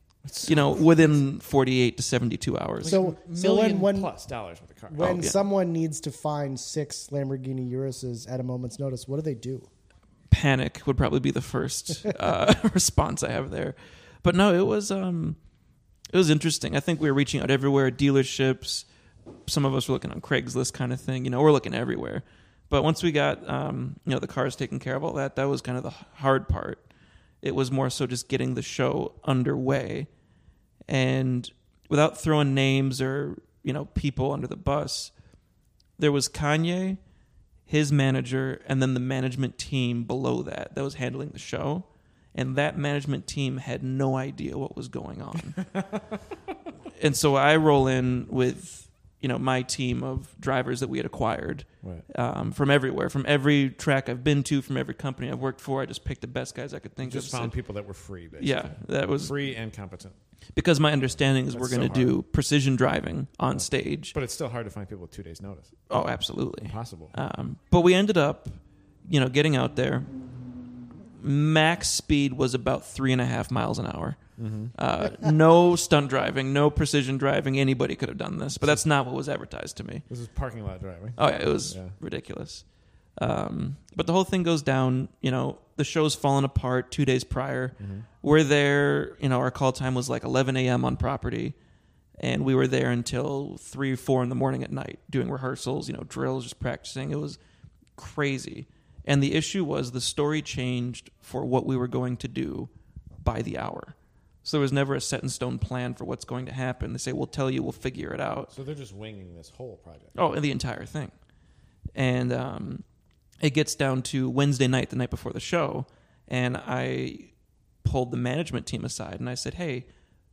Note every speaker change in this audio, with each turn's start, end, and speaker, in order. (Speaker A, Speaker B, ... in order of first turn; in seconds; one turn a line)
Speaker A: 0.2-1.2
Speaker B: 0.4-3.0
Speaker A: 2.8-5.3
Speaker C: 2.8-4.1
Speaker C: 4.9-9.7
Speaker B: 5.0-5.3
Speaker B: 10.3-15.4
Speaker B: 16.1-18.9
Speaker B: 19.5-26.9
Speaker B: 27.4-30.1
Speaker B: 30.9-35.1
Speaker B: 36.0-37.0
Speaker B: 37.7-45.6
Speaker B: 47.0-57.5
Speaker A: 57.0-60.1
Speaker B: 58.4-59.3
Speaker B: 60.5-64.1
Speaker A: 61.5-62.2
Speaker A: 63.5-65.8
Speaker B: 65.9-70.1
Speaker A: 66.6-67.1
Speaker B: 71.2-74.2
Speaker A: 74.4-74.7
Speaker B: 74.7-80.0
Speaker A: 80.1-81.9
Speaker B: 81.2-82.6
Speaker B: 83.2-91.5
Speaker A: 87.8-88.0
Speaker B: 92.2-97.4
Speaker B: 98.0-102.7
Speaker B: 103.2-108.5
Speaker A: 108.5-110.1
Speaker B: 110.1-111.1
Speaker B: 111.9-112.8
Speaker B: 113.4-117.3
Speaker B: 117.8-119.9